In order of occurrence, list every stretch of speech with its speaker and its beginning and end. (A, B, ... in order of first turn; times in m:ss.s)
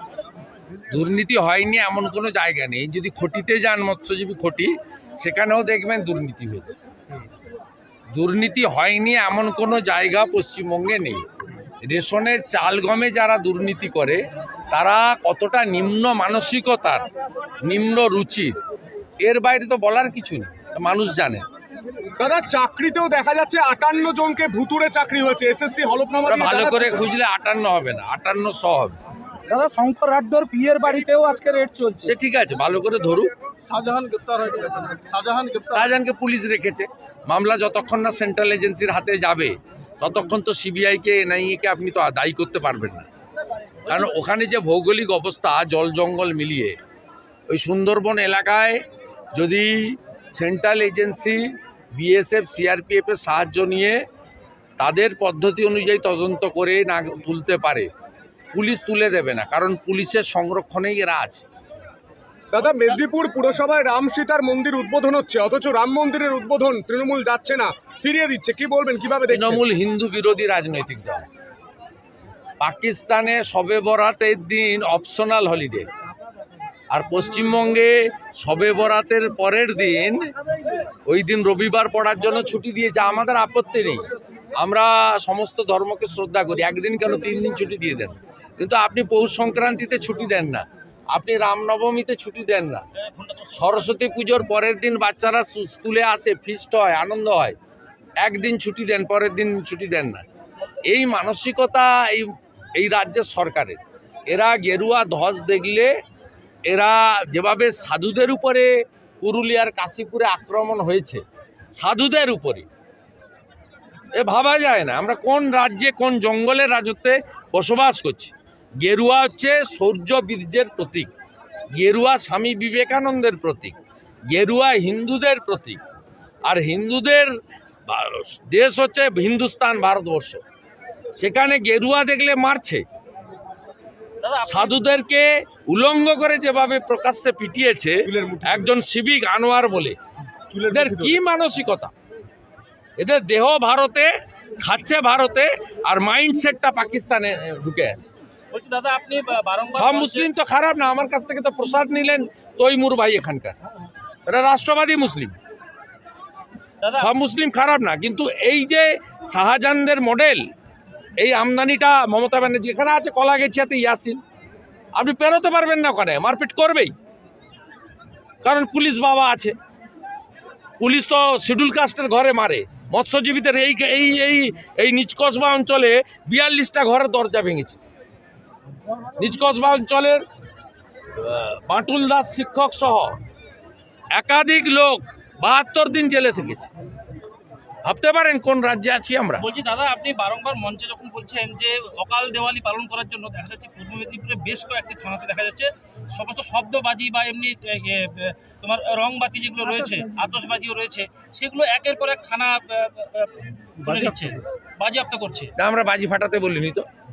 0:00.9-0:06.7 A
0:08.1-0:11.2 A
0:11.8-0:17.0 A
0:17.6-0:18.6 A
0:19.2-0:21.4 A
0:22.2-0:27.0 B
0:26.2-0:29.0 A
0:29.4-0:32.1 C
0:32.1-0:33.3 A
0:33.6-0:35.8 D
0:35.7-0:43.1 A
0:43.9-0:46.8 A
0:47.5-0:54.0 A
0:54.8-0:57.9 A
0:58.5-1:01.4 A
1:02.5-1:09.6 B
1:09.3-1:11.3 A
1:12.6-1:15.9 A
1:16.9-1:20.3 A
1:21.0-1:24.0 A
1:24.6-1:32.8 A
1:33.0-1:33.5 E
1:33.5-1:37.6 A
1:38.2-1:40.2 A
1:40.8-1:45.9 A
1:46.7-1:51.2 A
1:51.7-1:52.7 A
1:54.1-2:01.1 A
2:01.8-2:03.8 A
2:04.3-2:05.8 A
2:06.4-2:07.3 A
2:07.9-2:10.4 A
2:11.2-2:12.8 A
2:14.2-2:14.8 E
2:14.5-2:20.0 A
2:18.0-2:18.7 B
2:20.5-2:21.2 B
2:20.7-2:21.9 A
2:23.0-2:28.1 A
2:28.5-2:30.3 E
2:29.8-2:33.6 A
2:34.2-2:35.4 A
2:36.8-2:37.1 E
2:37.0-2:40.4 A
2:41.2-2:44.2 A
2:44.9-2:46.9 A
2:48.4-2:49.5 A
2:50.8-2:57.8 A
2:59.2-3:00.2 A
3:01.1-3:03.2 A
3:04.1-3:06.7 A
3:07.8-3:09.5 A
3:09.4-3:25.5 E
3:25.6-3:26.8 A